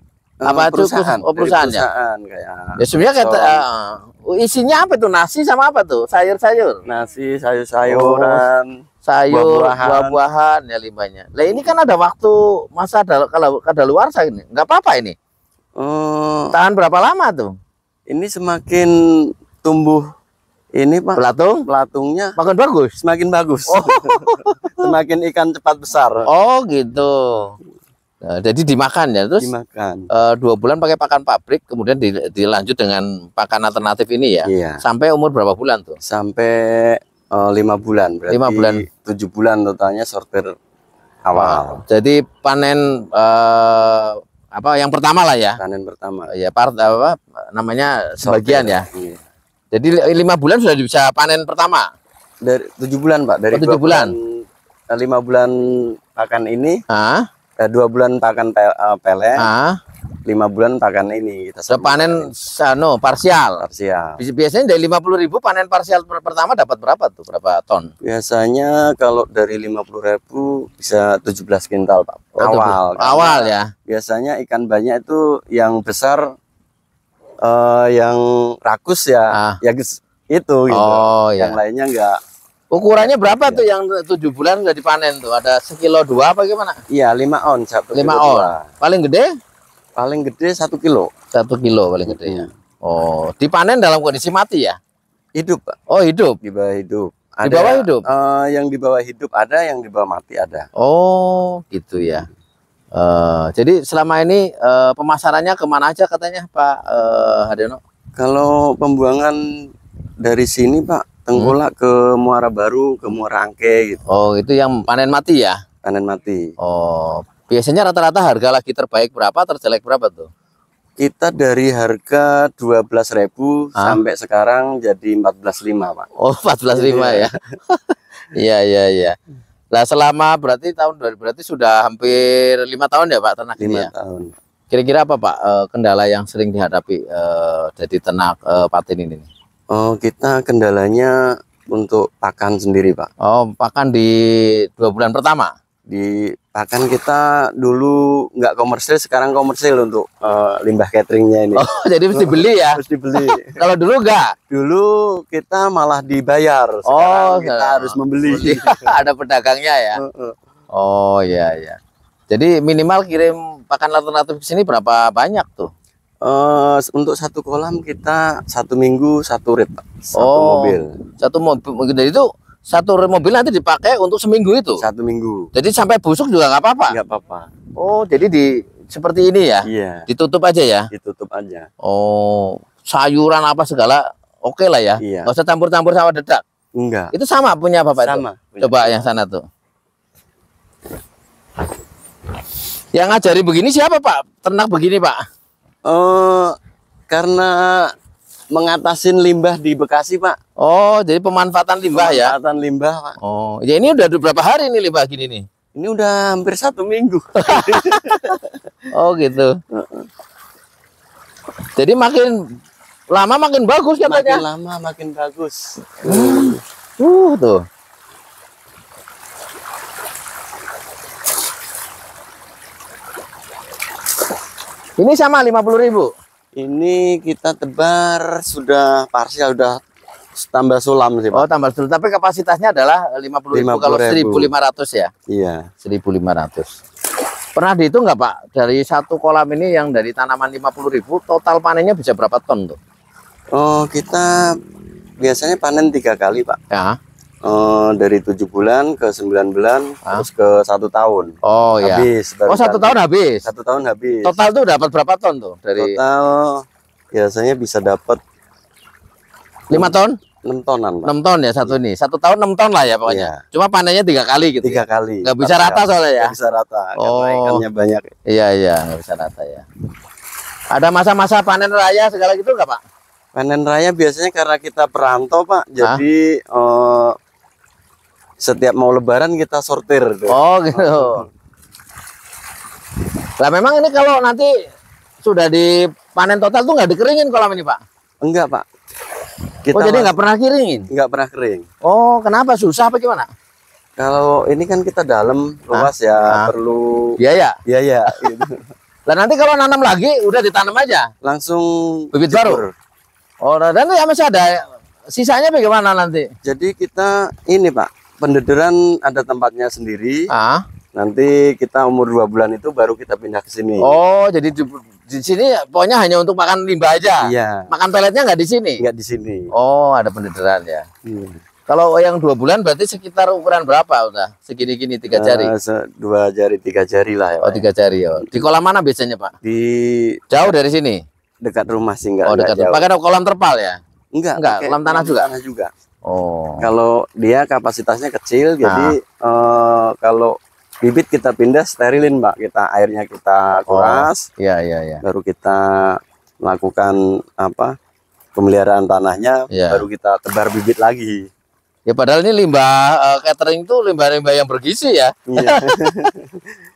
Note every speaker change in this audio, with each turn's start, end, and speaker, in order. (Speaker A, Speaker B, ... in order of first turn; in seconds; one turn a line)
Speaker A: 0.4-3.6
Speaker B: 0.5-1.8
Speaker B: 2.8-6.8
Speaker A: 6.9-8.8
Speaker B: 7.8-8.4
Speaker B: 9.1-15.2
Speaker A: 9.3-10.2
Speaker A: 15.8-16.5
Speaker B: 16.5-17.5
Speaker A: 18.1-18.9
Speaker A: 19.6-20.1
Speaker A: 20.8-22.4
Speaker B: 21.2-21.6
Speaker B: 22.4-23.0
Speaker A: 23.0-26.3
Speaker B: 23.7-24.9
Speaker B: 26.3-27.6
Speaker B: 28.2-29.5
Speaker A: 29.4-30.1
Speaker B: 30.1-36.0
Speaker A: 34.5-34.8
Speaker A: 36.0-40.5
Speaker B: 38.3-38.9
Speaker A: 41.3-41.8
Speaker B: 41.4-45.6
Speaker A: 45.6-46.3
Speaker B: 46.3-48.9
Speaker A: 48.2-49.2
Speaker B: 49.7-51.9
Speaker A: 52.4-56.8
Speaker B: 53.5-54.1
Speaker B: 56.9-57.3
Speaker A: 57.6-59.4
Speaker B: 59.4-59.8
Speaker A: 60.3-62.3
Speaker B: 61.7-63.6
Speaker A: 63.6-64.2
Speaker B: 64.2-67.9
Speaker A: 68.0-76.2
Speaker B: 72.4-73.7
Speaker A: 77.4-82.2
Speaker B: 80.7-81.6
Speaker B: 82.7-86.8
Speaker A: 83.0-83.7
Speaker A: 86.9-88.7
Speaker B: 87.9-89.3
Speaker A: 90.0-91.1
Speaker B: 91.3-94.8
Speaker A: 92.1-92.5
Speaker A: 95.4-95.8
Speaker B: 95.9-96.4
Speaker A: 96.4-100.7
Speaker B: 97.4-98.0
Speaker B: 100.8-102.3
Speaker B: 103.0-107.8
Speaker A: 108.2-109.4
Speaker A: 110.2-114.0
Speaker B: 114.1-115.6
Speaker A: 115.8-116.5
Speaker B: 116.6-120.3
Speaker A: 121.0-126.1
Speaker B: 126.2-129.2
Speaker A: 126.7-127.4
Speaker B: 129.7-133.9
Speaker A: 133.6-134.3
Speaker B: 134.7-139.3
Speaker A: 139.7-143.1
Speaker B: 143.2-145.5
Speaker A: 145.9-153.6
Speaker B: 151.6-154.3
Speaker A: 154.5-158.9
Speaker B: 156.9-160.0
Speaker A: 160.0-160.4
Speaker B: 160.8-161.8
Speaker B: 162.3-165.7
Speaker A: 166.2-170.9
Speaker B: 170.2-174.8
Speaker A: 174.8-175.5
Speaker B: 175.5-177.0
Speaker A: 176.9-177.5
Speaker B: 177.8-180.9
Speaker A: 179.7-180.1
Speaker A: 180.9-181.7
Speaker B: 181.8-186.4
Speaker A: 185.0-185.3
Speaker A: 186.8-187.1
Speaker B: 187.1-189.4
Speaker A: 188.0-189.0
Speaker B: 192.9-195.2
Speaker A: 195.9-196.6
Speaker A: 197.1-197.9
Speaker A: 198.5-200.4
Speaker B: 200.6-202.3
Speaker A: 201.9-203.2
Speaker B: 203.2-205.4
Speaker A: 205.8-208.5
Speaker B: 207.4-208.3
Speaker B: 208.9-209.6
Speaker A: 209.7-210.1
Speaker B: 211.8-212.4
Speaker B: 213.1-214.4
Speaker A: 214.1-216.6
Speaker B: 216.0-217.6
Speaker B: 225.0-226.1
Speaker A: 226.6-229.8
Speaker A: 230.4-231.4
Speaker B: 231.3-235.1
Speaker A: 233.5-234.5
Speaker A: 235.3-235.7
Speaker B: 235.8-236.8
Speaker B: 237.6-242.8
Speaker A: 243.5-244.6
Speaker A: 245.2-246.6
Speaker B: 246.7-247.0
Speaker A: 247.4-254.3
Speaker B: 251.4-253.4
Speaker B: 254.2-256.0
Speaker A: 255.8-258.2
Speaker B: 259.7-260.2
Speaker A: 259.7-261.1
Speaker B: 261.1-266.3
Speaker A: 263.1-263.4
Speaker A: 264.6-268.1
Speaker B: 267.0-267.6
Speaker B: 268.3-269.6
Speaker B: 270.7-272.8
Speaker A: 273.4-277.2
Speaker A: 278.4-281.2
Speaker B: 280.3-281.2
Speaker B: 283.4-284.5
Speaker B: 285.2-287.8
Speaker A: 288.2-288.6
Speaker A: 289.7-290.1
Speaker B: 289.7-290.9
Speaker A: 290.9-291.7
Speaker B: 291.9-293.3
Speaker A: 294.0-298.6
Speaker B: 295.7-296.5
Speaker B: 297.2-297.6
Speaker B: 298.1-298.5
Speaker B: 299.1-301.1
Speaker A: 301.2-302.7
Speaker B: 302.1-302.6
Speaker B: 303.4-306.3
Speaker A: 306.4-310.2
Speaker B: 310.3-310.6
Speaker A: 310.9-313.9
Speaker B: 313.8-318.8
Speaker A: 317.2-317.7
Speaker A: 318.8-319.5
Speaker B: 319.5-320.9
Speaker A: 321.1-321.4
Speaker B: 321.7-325.5
Speaker A: 325.1-327.7
Speaker B: 327.4-329.3
Speaker A: 329.4-330.5
Speaker B: 330.3-331.0
Speaker A: 331.4-332.9
Speaker B: 332.2-333.8
Speaker A: 334.1-335.7
Speaker B: 334.4-335.3
Speaker B: 336.1-336.7
Speaker A: 336.6-344.3
Speaker B: 338.6-338.9
Speaker B: 343.7-345.0
Speaker A: 345.0-347.8
Speaker A: 348.4-351.3
Speaker B: 349.5-349.9
Speaker B: 351.9-356.1
Speaker A: 355.3-356.4